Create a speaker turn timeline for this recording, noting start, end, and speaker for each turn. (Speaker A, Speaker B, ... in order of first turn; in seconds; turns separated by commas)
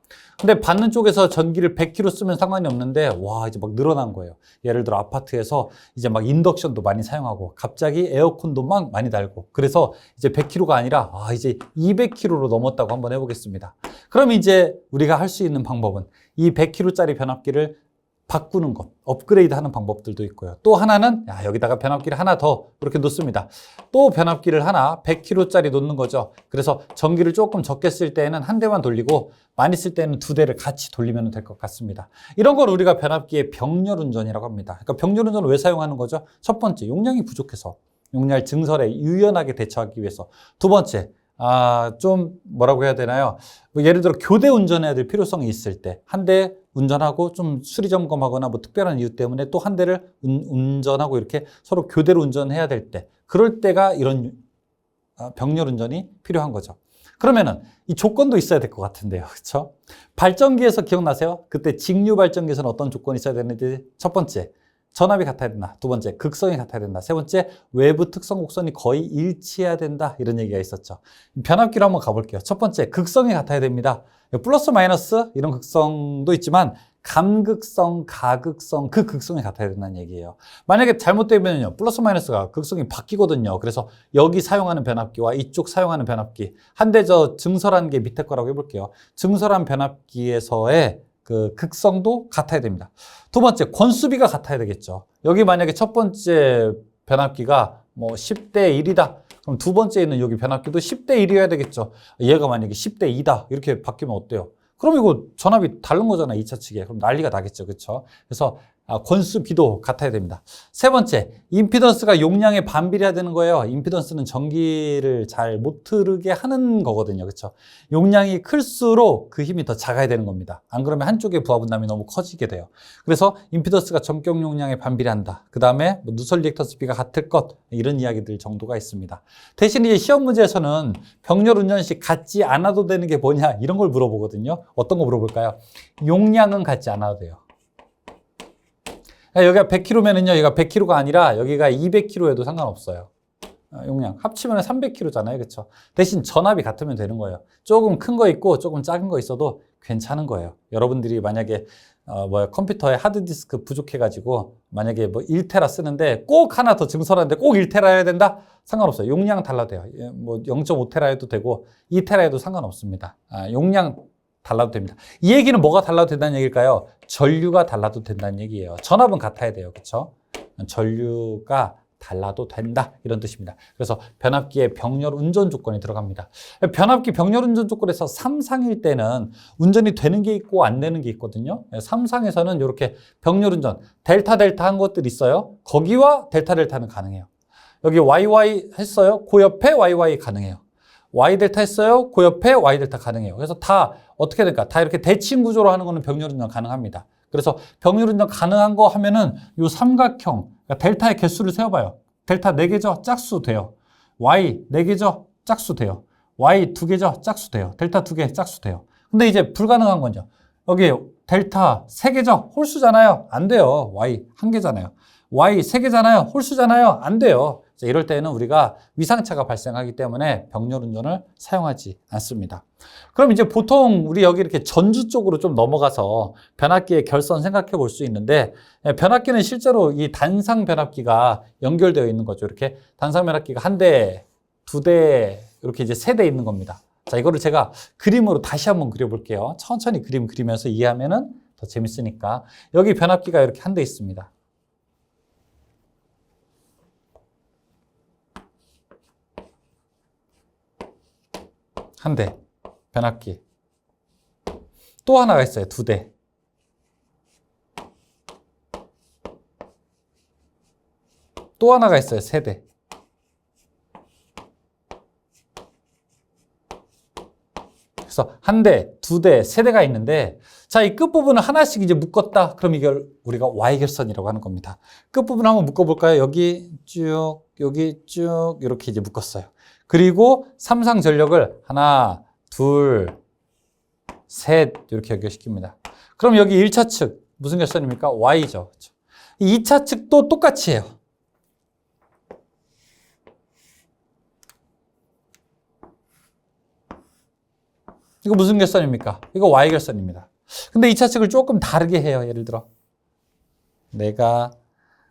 Speaker A: 0.4-54.4, Speaker A: 55.2-137.4, Speaker A: 139.3-143.1, Speaker A: 143.7-187.3, Speaker A: 187.8-190.6, Speaker A: 191.1-244.3, Speaker A: 252.0-252.4, Speaker A: 252.9-253.4, Speaker A: 255.1-256.1, Speaker A: 261.6-262.6, Speaker A: 268.1-283.2, Speaker A: 284.3-291.0, Speaker A: 298.2-302.7, Speaker A: 303.9-304.5